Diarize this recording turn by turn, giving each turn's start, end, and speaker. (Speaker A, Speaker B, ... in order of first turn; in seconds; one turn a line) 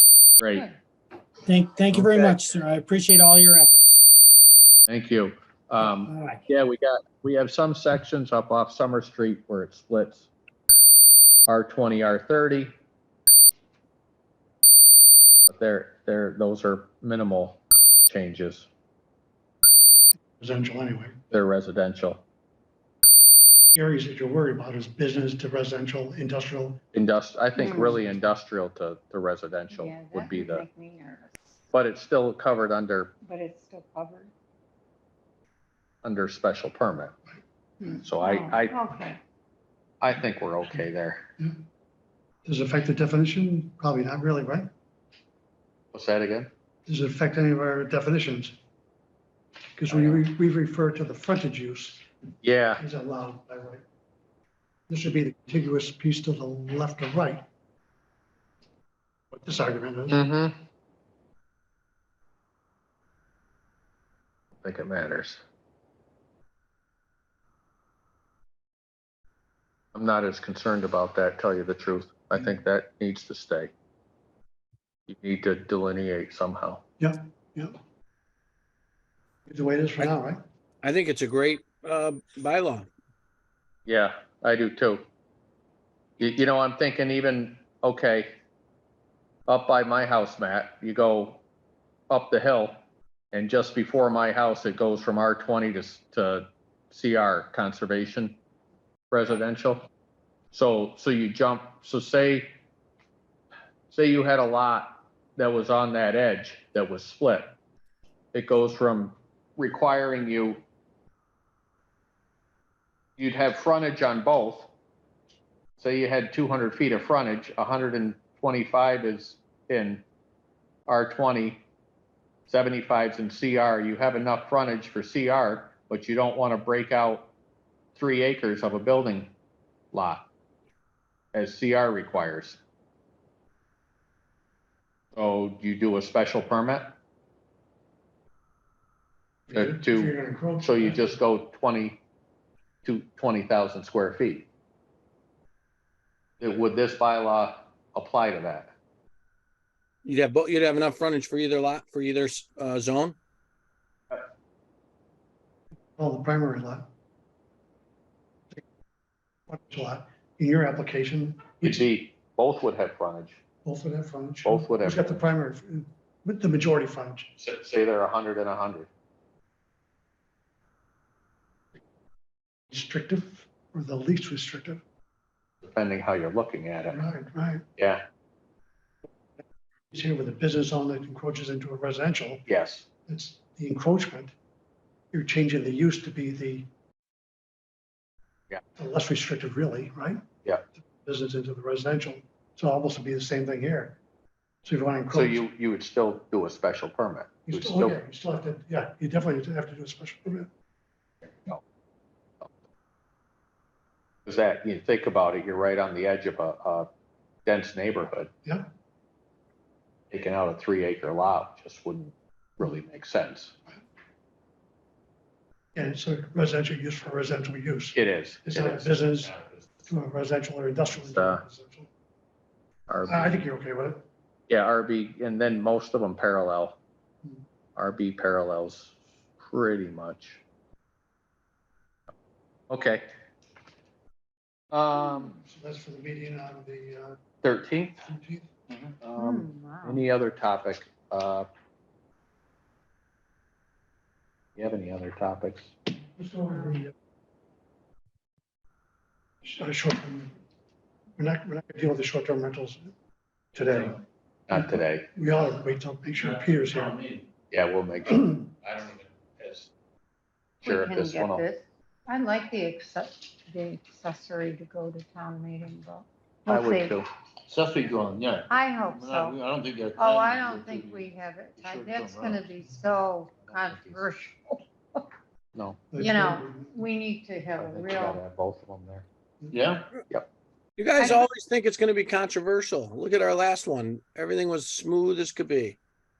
Speaker A: 0.4-0.7
Speaker B: 1.4-4.0
Speaker A: 4.9-10.3
Speaker B: 5.8-6.4
Speaker A: 11.5-12.7
Speaker A: 15.5-18.7
Speaker C: 20.4-21.2
Speaker A: 21.3-22.2
Speaker C: 23.7-26.8
Speaker A: 26.9-30.6
Speaker D: 27.5-28.0
Speaker D: 29.7-31.6
Speaker A: 31.7-33.1
Speaker D: 33.2-34.3
Speaker A: 36.0-37.1
Speaker D: 37.8-39.2
Speaker A: 38.0-38.8
Speaker A: 40.0-41.2
Speaker C: 42.4-44.7
Speaker A: 45.9-46.5
Speaker C: 46.9-48.5
Speaker C: 49.8-52.0
Speaker A: 49.9-50.2
Speaker A: 52.4-52.8
Speaker C: 52.8-53.8
Speaker C: 54.9-57.4
Speaker C: 59.3-60.2
Speaker A: 60.1-60.5
Speaker A: 64.6-65.4
Speaker A: 69.9-73.7
Speaker A: 75.1-76.8
Speaker C: 77.0-77.8
Speaker C: 79.5-80.4
Speaker E: 80.8-82.9
Speaker A: 83.8-85.0
Speaker A: 86.2-88.3
Speaker A: 89.5-91.4
Speaker A: 92.1-92.8
Speaker A: 93.3-98.4
Speaker A: 99.1-99.9
Speaker A: 100.5-102.5
Speaker A: 103.9-107.5
Speaker A: 108.3-110.6
Speaker A: 113.2-114.7
Speaker A: 115.8-120.0
Speaker A: 120.9-121.6
Speaker A: 122.5-127.3
Speaker A: 127.9-129.3
Speaker A: 129.9-130.2
Speaker A: 131.3-132.6
Speaker A: 135.2-136.9
Speaker C: 139.5-141.1
Speaker A: 139.5-142.0
Speaker A: 142.8-144.5
Speaker A: 146.4-148.7
Speaker E: 150.0-153.1
Speaker C: 155.9-156.8
Speaker C: 159.5-161.9
Speaker A: 161.6-163.4
Speaker C: 163.6-167.3
Speaker A: 164.4-165.2
Speaker A: 167.4-168.9
Speaker C: 172.7-174.8
Speaker A: 175.6-177.0
Speaker C: 176.9-177.6
Speaker A: 177.8-178.0
Speaker C: 179.9-182.4
Speaker A: 182.5-182.9
Speaker C: 183.1-184.3
Speaker C: 185.1-186.7
Speaker C: 188.8-190.2
Speaker C: 190.9-194.0
Speaker C: 194.6-195.4
Speaker A: 195.1-198.0
Speaker C: 197.5-200.5
Speaker A: 204.2-206.9
Speaker A: 207.4-208.3
Speaker A: 210.1-213.6
Speaker C: 215.7-221.9
Speaker A: 217.9-219.8
Speaker A: 221.1-221.4
Speaker A: 222.9-223.5
Speaker C: 223.1-224.1
Speaker A: 224.5-226.8
Speaker A: 227.8-230.4
Speaker A: 232.7-233.0
Speaker A: 234.7-235.4
Speaker C: 235.3-237.2
Speaker A: 237.4-238.1
Speaker C: 238.1-238.5
Speaker A: 239.0-241.5
Speaker D: 239.2-240.0
Speaker A: 244.6-245.7
Speaker C: 246.2-246.9
Speaker C: 249.4-250.3
Speaker C: 251.2-252.9
Speaker C: 253.5-257.0
Speaker A: 254.5-255.1
Speaker F: 256.8-257.2
Speaker A: 257.5-259.7
Speaker A: 260.6-261.4
Speaker D: 260.6-267.0
Speaker A: 266.5-267.1
Speaker F: 267.5-272.5
Speaker D: 268.5-269.4
Speaker D: 269.9-275.0
Speaker A: 273.5-274.0
Speaker A: 275.5-275.9
Speaker C: 275.9-276.8
Speaker D: 276.0-278.2
Speaker A: 277.6-279.0
Speaker F: 279.5-279.9
Speaker E: 280.8-285.8
Speaker D: 281.0-281.3